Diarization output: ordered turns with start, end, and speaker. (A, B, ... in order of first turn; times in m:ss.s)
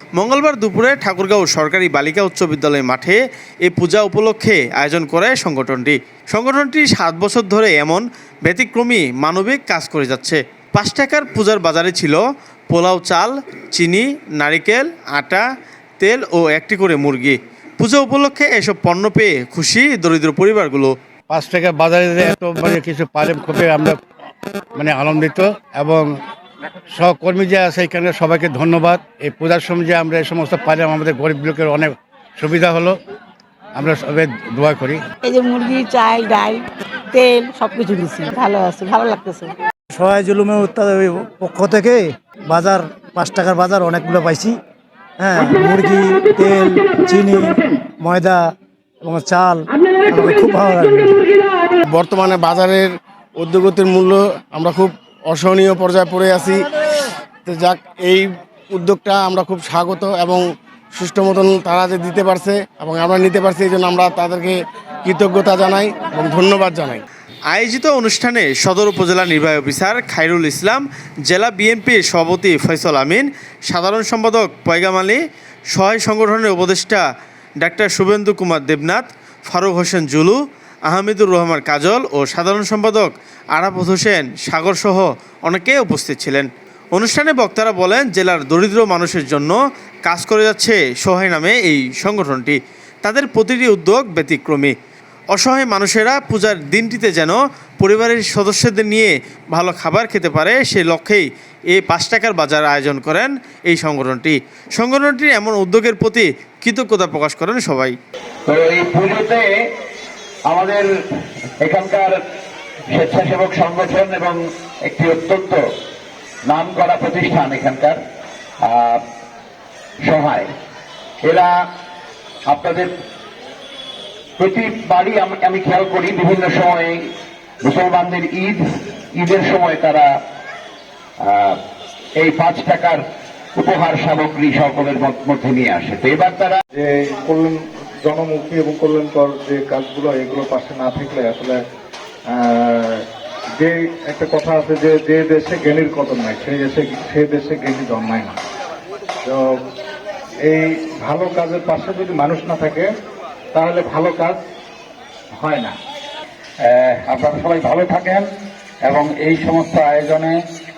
0:00.2-0:15.4 A
0:16.0-0:20.9 A
0:21.3-0:24.0 B
0:24.7-0:26.2 B
0:26.9-0:33.0 B
0:33.8-0:35.0 B
0:35.2-0:39.5 C
0:39.9-0:44.6 D
0:45.2-0:51.3 D
0:51.8-0:56.6 E
0:57.4-1:07.0 E
1:07.5-1:15.2 A
1:15.7-1:17.0 A
1:17.6-1:34.7 A
1:35.3-1:48.0 A
1:48.5-1:49.5 F
1:50.5-1:50.9 F
1:51.6-1:52.2 F
1:52.9-1:55.6 F
1:56.5-1:58.0 F
1:58.6-1:59.0 F
2:00.0-2:00.5 F
2:01.2-2:01.6 F
2:02.5-2:02.9 F
2:04.4-2:07.0 F
2:07.6-2:10.1 F
2:11.2-2:11.6 F
2:12.2-2:13.0 F
2:13.5-2:16.6 F
2:16.7-2:17.5 G
2:18.0-2:21.6 G
2:22.3-2:23.0 G
2:23.6-2:28.3 G
2:29.3-2:29.6 G
2:30.5-2:32.9 G
2:33.5-2:34.4 G
2:36.6-2:38.2 F
2:38.8-2:40.3 F